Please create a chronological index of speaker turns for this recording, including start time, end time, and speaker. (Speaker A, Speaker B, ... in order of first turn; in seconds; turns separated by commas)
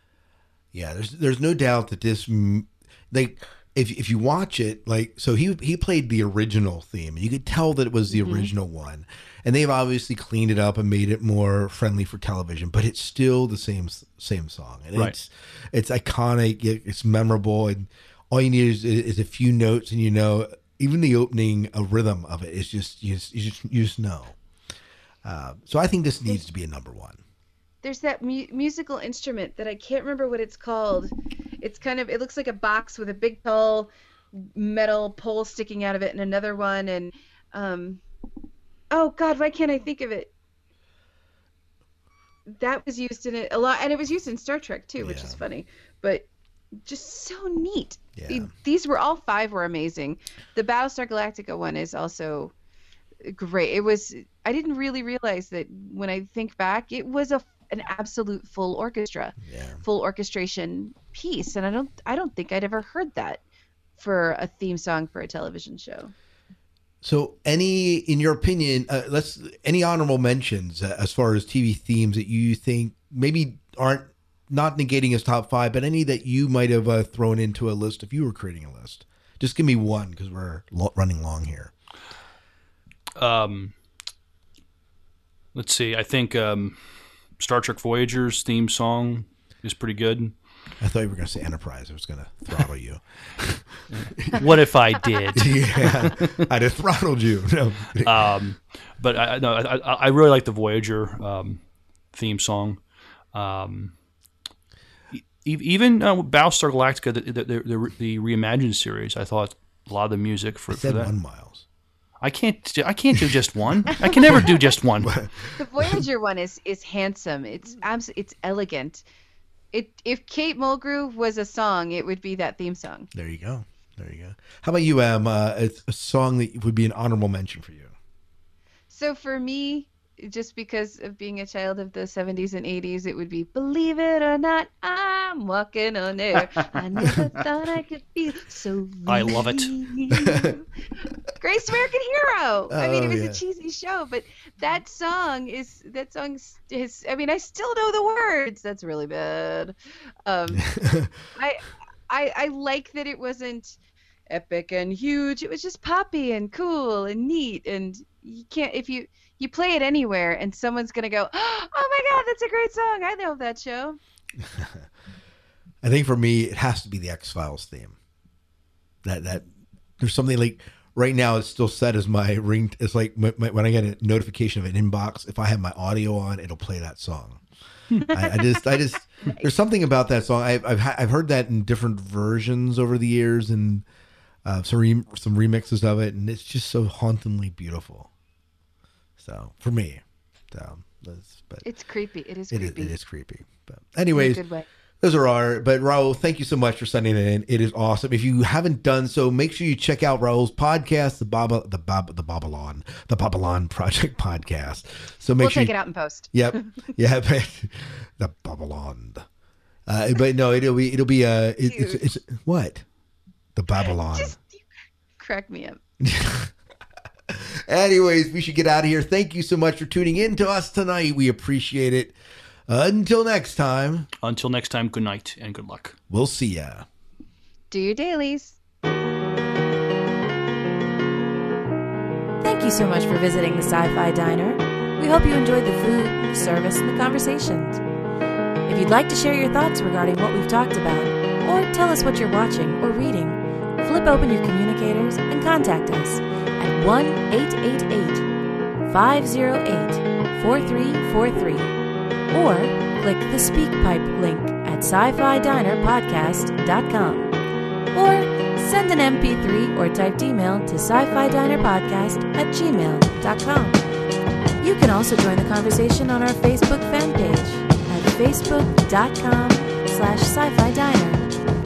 Speaker A: 0.7-24.4, Speaker B: 8.1-8.5, Speaker A: 25.2-27.2, Speaker B: 27.8-38.0, Speaker B: 38.9-40.3, Speaker B: 42.5-46.3, Speaker A: 45.0-45.4, Speaker B: 46.8-52.5, Speaker A: 48.2-48.5, Speaker B: 53.2-63.4, Speaker A: 59.4-59.8, Speaker B: 64.0-66.1, Speaker A: 67.0-81.7, Speaker C: 83.2-83.8, Speaker C: 85.5-86.8, Speaker C: 87.3-90.4, Speaker A: 90.8-94.5, Speaker C: 93.9-96.3, Speaker A: 95.3-98.3, Speaker C: 98.0-101.6, Speaker C: 102.1-102.8, Speaker C: 103.3-103.9, Speaker C: 105.1-111.1, Speaker A: 110.7-111.7, Speaker C: 112.2-115.2, Speaker A: 115.0-116.0, Speaker B: 115.6-119.0, Speaker B: 119.7-123.1, Speaker A: 123.1-127.9, Speaker B: 128.9-140.6, Speaker C: 139.1-139.7, Speaker A: 140.2-140.5, Speaker B: 141.4-150.7, Speaker A: 142.7-143.4, Speaker A: 150.5-151.1, Speaker B: 151.3-153.8, Speaker B: 154.3-164.0, Speaker A: 164.4-164.9, Speaker A: 165.8-168.0, Speaker A: 169.0-169.5, Speaker A: 170.0-177.4, Speaker B: 178.1-178.7, Speaker A: 178.1-183.8, Speaker B: 179.2-179.5, Speaker A: 184.4-188.1, Speaker A: 189.2-191.7, Speaker B: 191.6-192.9, Speaker A: 192.5-194.4, Speaker B: 194.1-194.7, Speaker A: 195.0-205.8, Speaker B: 205.4-206.8, Speaker A: 206.3-209.2, Speaker A: 209.9-212.8, Speaker B: 211.7-212.0, Speaker A: 213.6-214.4, Speaker B: 213.8-214.7, Speaker B: 215.2-215.8, Speaker A: 216.0-216.5, Speaker A: 217.3-222.2, Speaker A: 222.7-224.1, Speaker C: 224.2-226.0, Speaker A: 226.1-226.9, Speaker B: 227.7-228.6, Speaker D: 232.4-237.8, Speaker D: 238.7-248.3, Speaker D: 248.8-251.7, Speaker D: 252.3-257.3, Speaker D: 257.9-263.8, Speaker D: 264.6-271.3